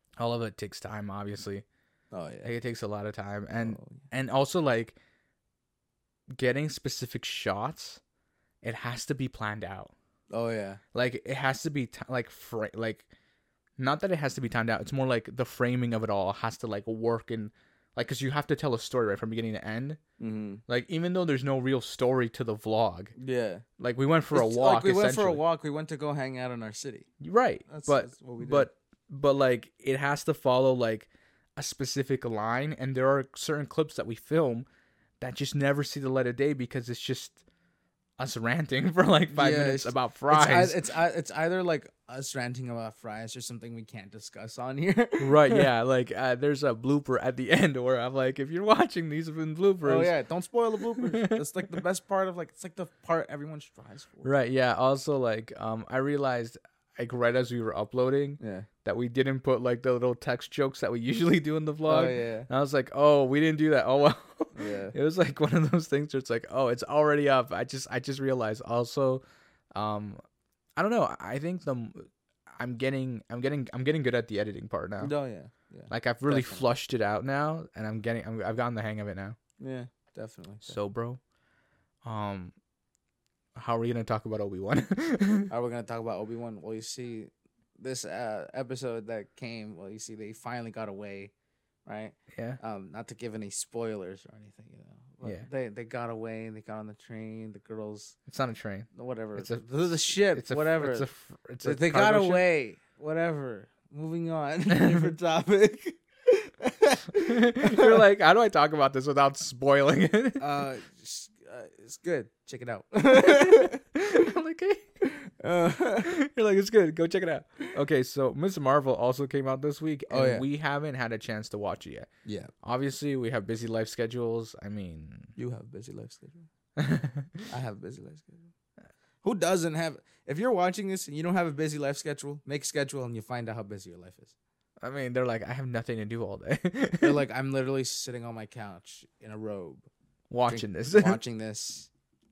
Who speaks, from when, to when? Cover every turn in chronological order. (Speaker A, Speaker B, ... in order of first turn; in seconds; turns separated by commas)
Speaker A: 0.2-1.6, Speaker B: 2.1-2.5, Speaker A: 2.4-5.0, Speaker B: 3.5-4.0, Speaker A: 6.4-8.0, Speaker A: 8.6-9.9, Speaker B: 10.3-10.8, Speaker A: 10.9-13.1, Speaker A: 13.8-20.0, Speaker B: 20.2-20.6, Speaker A: 20.7-23.1, Speaker B: 23.2-23.6, Speaker A: 23.8-25.4, Speaker B: 24.3-27.1, Speaker A: 27.2-34.7, Speaker B: 27.7-28.7, Speaker A: 35.2-37.4, Speaker A: 38.2-40.8, Speaker B: 39.3-45.7, Speaker A: 45.2-50.1, Speaker B: 49.8-54.3, Speaker A: 51.0-51.8, Speaker A: 54.2-69.2, Speaker B: 58.4-58.7, Speaker B: 61.9-62.5, Speaker B: 64.5-65.0, Speaker A: 69.8-70.2, Speaker A: 70.8-75.1, Speaker B: 75.0-76.7, Speaker A: 75.9-79.4, Speaker B: 79.6-80.8, Speaker A: 80.6-81.2, Speaker A: 82.0-82.5, Speaker A: 83.5-85.5, Speaker B: 85.5-91.3, Speaker B: 91.9-98.2, Speaker A: 92.3-92.6, Speaker A: 98.3-102.4, Speaker B: 98.9-101.1, Speaker B: 101.6-108.0, Speaker A: 104.7-105.1, Speaker A: 107.2-110.4, Speaker B: 110.4-113.8, Speaker A: 113.1-114.9, Speaker B: 115.1-116.1, Speaker A: 116.0-122.1, Speaker B: 120.1-120.5, Speaker B: 122.3-122.5, Speaker A: 122.6-125.3, Speaker B: 125.4-126.5, Speaker A: 126.8-127.5, Speaker B: 127.5-128.5, Speaker B: 129.2-134.3, Speaker A: 134.8-137.2, Speaker B: 137.0-139.9, Speaker A: 140.3-141.2, Speaker B: 140.5-141.9